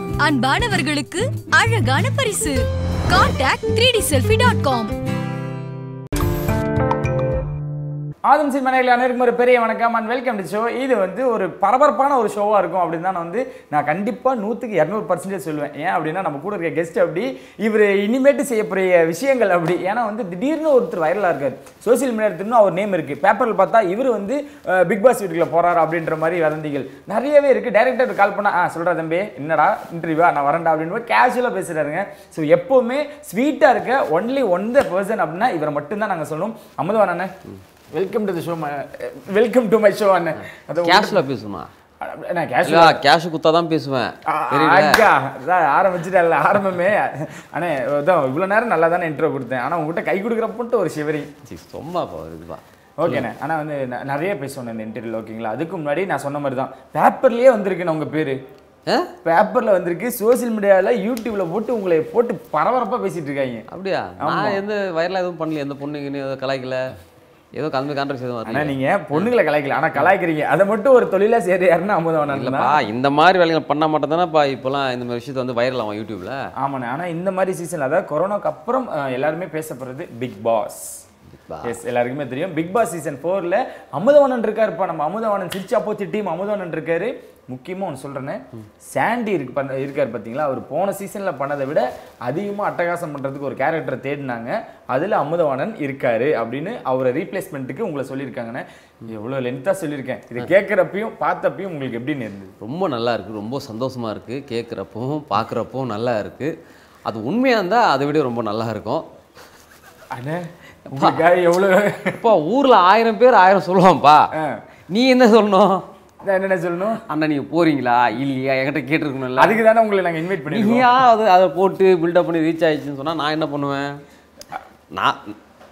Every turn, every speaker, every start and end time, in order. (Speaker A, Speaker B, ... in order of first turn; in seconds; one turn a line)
Speaker A: 0.2-4.9
Speaker B: 8.3-37.3
Speaker B: 37.9-41.2
Speaker C: 40.8-41.7
Speaker B: 42.0-43.0
Speaker C: 42.6-45.0
Speaker B: 44.3-51.3
Speaker C: 51.5-53.3
Speaker B: 53.0-58.4
Speaker B: 59.2-63.6
Speaker C: 63.7-66.9
Speaker B: 64.2-64.6
Speaker C: 67.5-69.3
Speaker B: 68.5-72.8
Speaker C: 72.3-76.4
Speaker B: 76.6-81.0
Speaker C: 81.3-81.8
Speaker B: 81.6-102.5
Speaker C: 102.6-106.5
Speaker C: 107.1-109.0
Speaker B: 110.1-112.2
Speaker C: 110.9-111.2
Speaker C: 112.2-114.2
Speaker B: 114.4-114.6
Speaker C: 114.9-115.8
Speaker B: 116.2-117.0
Speaker C: 117.0-119.6
Speaker B: 119.3-121.0
Speaker C: 120.4-123.9
Speaker C: 124.9-125.3